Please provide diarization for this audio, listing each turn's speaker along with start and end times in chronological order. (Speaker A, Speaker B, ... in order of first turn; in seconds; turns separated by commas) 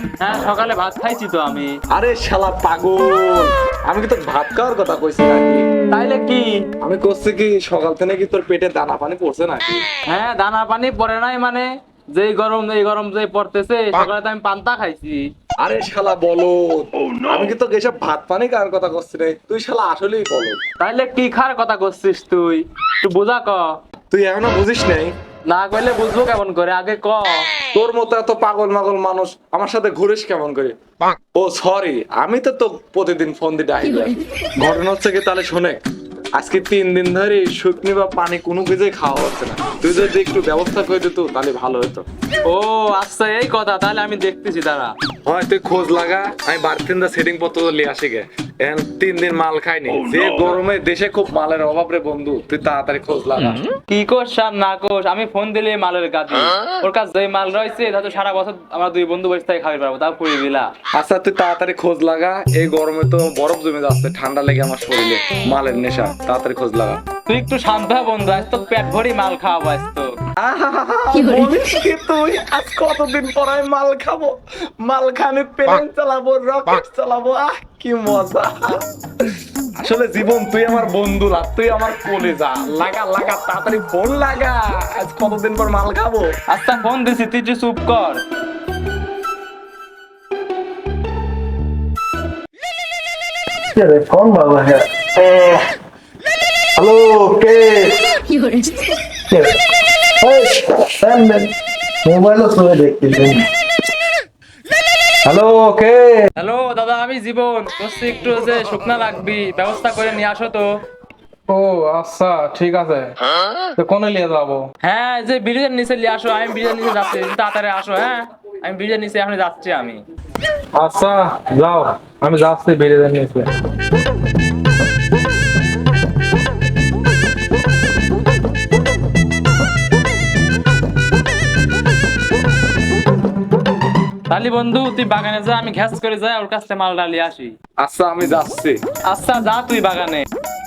Speaker A: 0.2-1.8, Speaker B: 1.9-5.7, Speaker A: 5.9-6.7, Speaker B: 6.8-9.8, Speaker A: 10.1-15.2, Speaker B: 15.6-20.6, Speaker A: 20.8-23.7, Speaker B: 24.1-25.1, Speaker A: 25.5-27.5, Speaker B: 27.7-30.8, Speaker B: 31.3-35.8, Speaker B: 36.4-42.1, Speaker A: 42.5-44.9, Speaker B: 45.2-53.6, Speaker A: 53.9-60.7, Speaker B: 60.9-67.0, Speaker A: 67.3-70.1, Speaker B: 70.4-86.3, Speaker A: 86.5-88.2, Speaker B: 93.8-95.5, Speaker B: 96.8-98.0, Speaker B: 100.2-101.5, Speaker B: 102.1-103.4, Speaker C: 105.2-106.3, Speaker A: 106.4-110.7, Speaker C: 111.5-113.2, Speaker C: 113.8-114.7, Speaker A: 114.8-120.0, Speaker C: 120.7-123.5, Speaker A: 134.3-137.6, Speaker B: 137.8-138.8, Speaker A: 139.1-140.3